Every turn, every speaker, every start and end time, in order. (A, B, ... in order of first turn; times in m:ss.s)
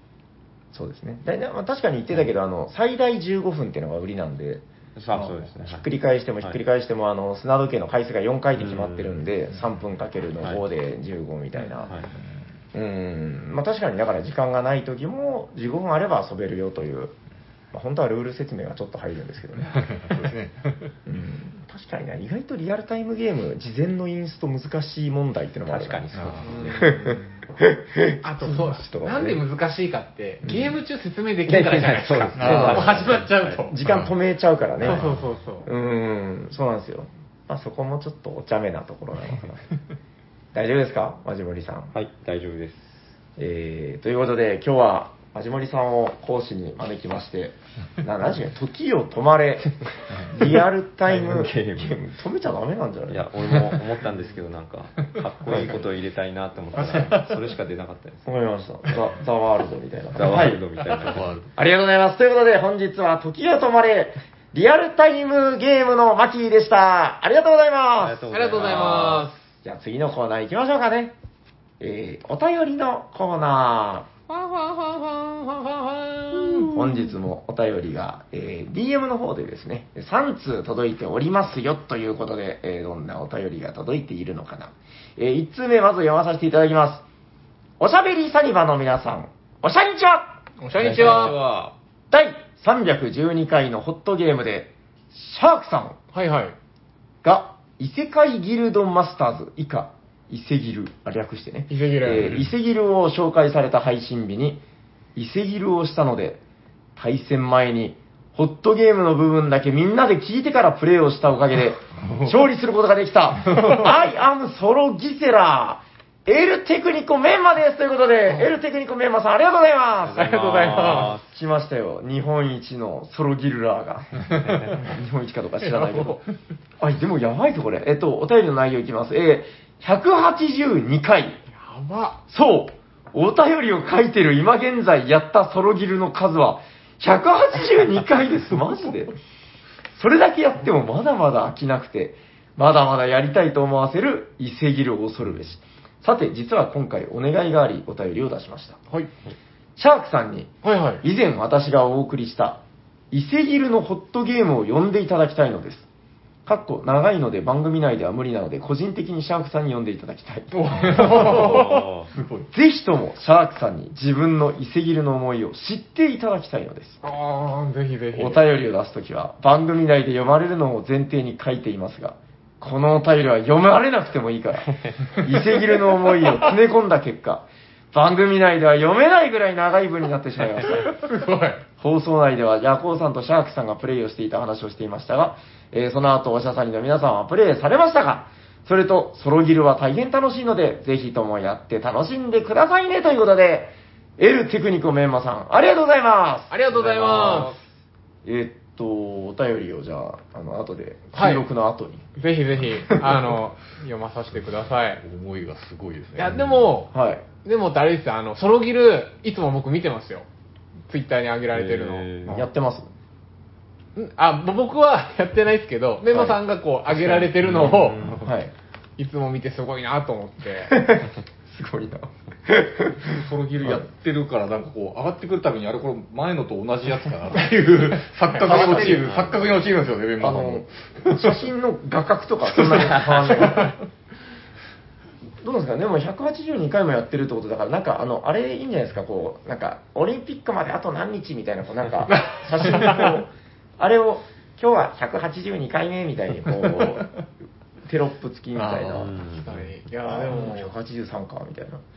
0:00.7-0:04.6 A
0:05.0-0:05.9 B
0:05.1-0:05.5 C
0:05.6-0:12.0 A
0:08.6-0:09.2 B
0:12.7-0:17.1 A
0:17.7-0:19.9 A
0:19.7-0:21.0 C
0:21.1-0:26.1 A
0:25.7-0:26.9 B
0:26.1-0:26.5 C
0:26.4-0:27.4 D
0:26.7-0:29.4 A
0:28.2-0:33.8 D
0:30.4-0:30.8 A
0:31.5-0:33.6 B
0:32.4-0:32.9 C
0:32.4-0:35.1 A
0:33.8-0:34.1 C
0:34.8-0:35.7 D
0:35.6-0:39.6 A
0:40.5-0:41.9 A
0:41.9-0:43.1 B
0:43.4-0:49.8 A
0:50.3-0:53.8 A
0:51.1-0:52.0 B
0:53.1-0:58.3 B
0:55.5-0:55.8 A
0:56.8-0:57.4 C
0:58.3-1:00.6 A
1:00.2-1:01.4 B
1:01.0-1:01.5 C
1:01.6-1:11.2 A
1:08.0-1:09.3 B
1:08.3-1:09.4 D
1:11.8-1:14.1 A
1:14.3-1:16.8 D
1:16.6-1:27.0 A
1:27.8-1:31.4 A
1:30.6-1:31.4 D
1:30.9-1:31.3 C
1:32.1-1:36.0 A
1:36.1-1:36.6 D
1:37.2-1:44.6 A
1:41.7-1:42.4 D
1:45.2-1:46.4 A
1:47.0-2:06.2 A
1:52.0-1:52.3 C
2:00.1-2:01.2 B
2:00.1-2:01.1 D
2:05.6-2:06.2 D
2:06.8-2:11.4 A
2:11.5-2:12.2 D
2:12.3-2:19.1 A
2:20.0-2:28.8 A
2:29.8-2:35.9 A
2:30.6-2:31.0 D
2:36.5-2:41.6 A
2:40.5-2:41.9 D
2:40.9-2:41.6 C
2:41.0-2:42.1 B
2:42.1-2:42.5 C
2:42.5-2:47.0 A
2:47.0-2:48.4 D
2:48.1-3:00.9 A
3:00.7-3:01.6 D
3:01.8-3:17.6 A
3:16.5-3:17.6 D
3:18.2-3:22.0 A
3:21.1-3:21.5 D
3:22.2-3:25.0 D
3:24.9-3:26.7 C
3:26.2-3:26.9 D
3:26.9-3:27.2 A
3:27.4-3:30.3 D
3:30.9-3:32.1 D
3:31.5-3:32.4 B
3:32.3-3:32.9 A
3:34.0-3:38.0 D
3:36.1-3:36.4 A
3:37.4-3:38.3 B
3:37.6-3:38.5 A
3:39.0-3:40.8 D
3:40.7-3:43.9 A
3:43.1-3:51.4 C
3:48.2-3:49.0 D
3:48.4-3:49.1 A
3:48.8-3:49.6 B
3:50.2-3:53.8 A
3:52.6-3:53.7 C
3:55.4-4:07.1 A
4:02.1-4:03.1 D
4:07.8-4:09.1 A
4:08.6-4:09.1 C
4:08.9-4:09.7 B
4:09.3-4:10.7 D
4:10.0-4:11.8 A